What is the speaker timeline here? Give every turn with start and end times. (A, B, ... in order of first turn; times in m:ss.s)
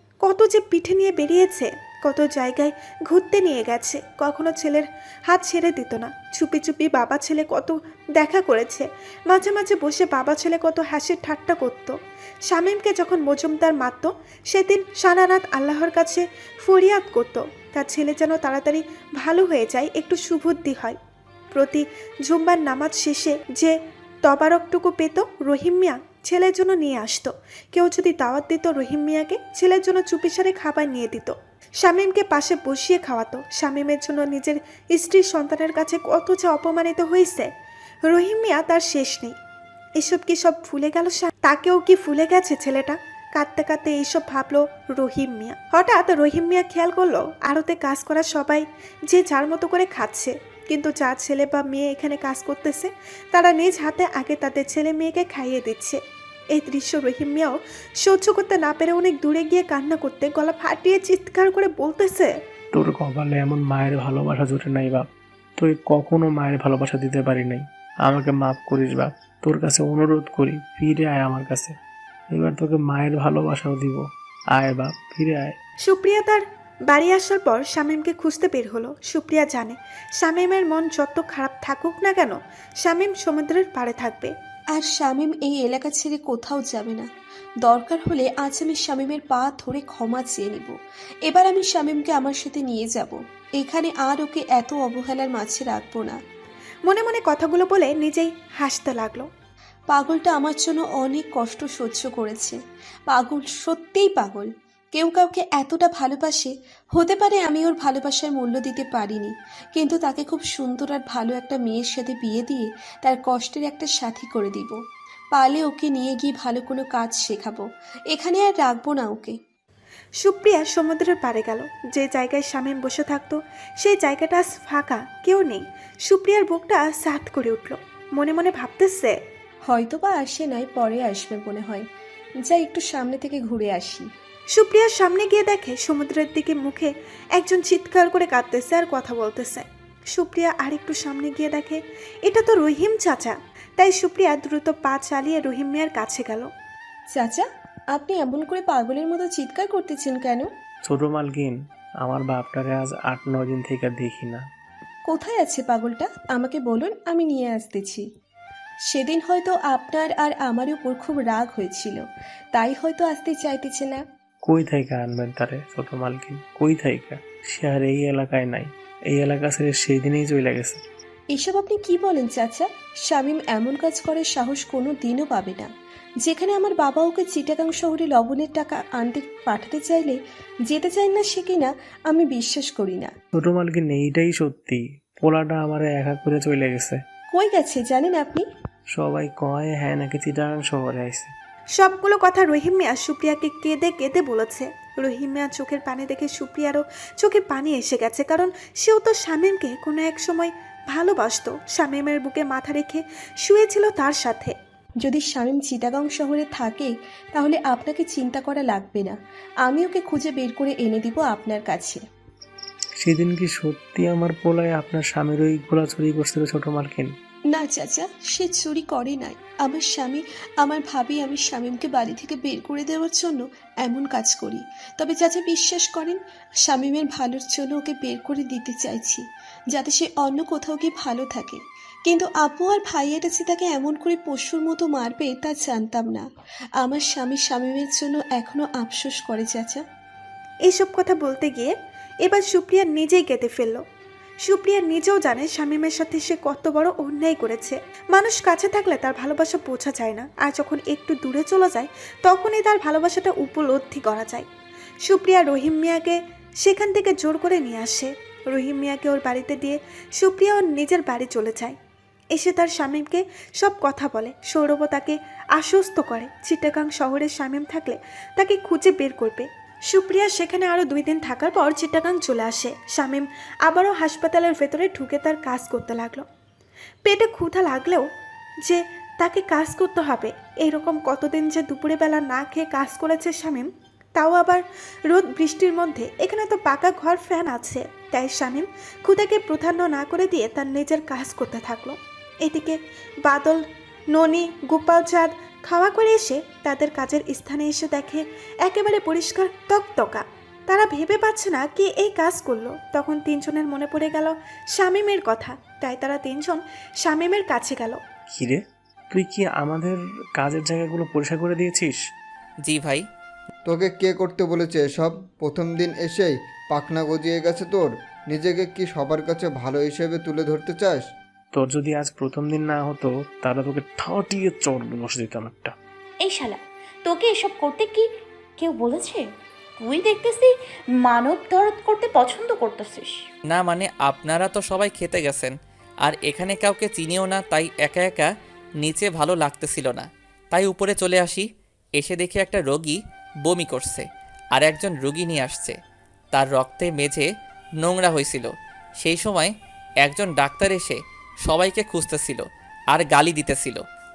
0:00.2-0:11.9 A
0:12.5-0:21.0 A
0:21.5-0:37.5 A
0:38.1-0:39.3 A
0:40.0-0:56.0 A
0:56.5-1:02.3 A
1:02.7-1:05.0 B
1:05.6-1:11.7 B
1:12.3-1:15.5 B
1:15.8-1:24.3 A
1:24.7-1:27.0 C
1:27.6-1:30.7 C
1:31.2-1:36.2 C
1:36.8-1:39.3 A
1:39.9-1:42.6 C
1:43.1-1:54.8 C
1:55.3-1:59.4 C
2:00.2-2:09.1 A
2:09.7-2:11.8 C
2:12.4-2:14.1 C
2:14.5-2:26.5 A
2:27.1-2:30.5 C
2:30.8-2:34.4 B
2:35.1-2:38.0 C
2:38.9-2:44.0 C
2:44.4-2:50.8 B
2:51.3-2:55.7 C
2:56.2-3:00.2 C
3:00.7-3:03.1 C
3:03.3-3:07.0 B
3:07.3-3:08.4 C
3:08.9-3:11.3 B
3:11.7-3:24.5 A
3:25.0-3:32.0 C
3:33.0-3:37.1 B
3:37.5-3:56.2 C
3:56.8-3:59.8 C
4:00.6-4:01.7 A
4:02.2-4:03.8 A
4:04.4-4:14.4 A
4:15.0-4:21.8 A
4:22.3-4:36.2 A
4:37.0-4:38.1 A
4:38.6-5:08.0 A
5:08.3-5:12.0 B
5:12.6-5:13.0 D
5:13.6-5:21.0 E
5:21.5-5:25.7 B
5:26.2-5:29.2 F
5:29.8-5:30.5 F
5:31.0-5:33.2 F
5:33.5-5:38.3 D
5:38.8-5:41.4 D
5:42.0-5:45.8 D
5:46.3-5:47.3 D
5:47.8-5:49.5 D
5:50.0-5:53.8 D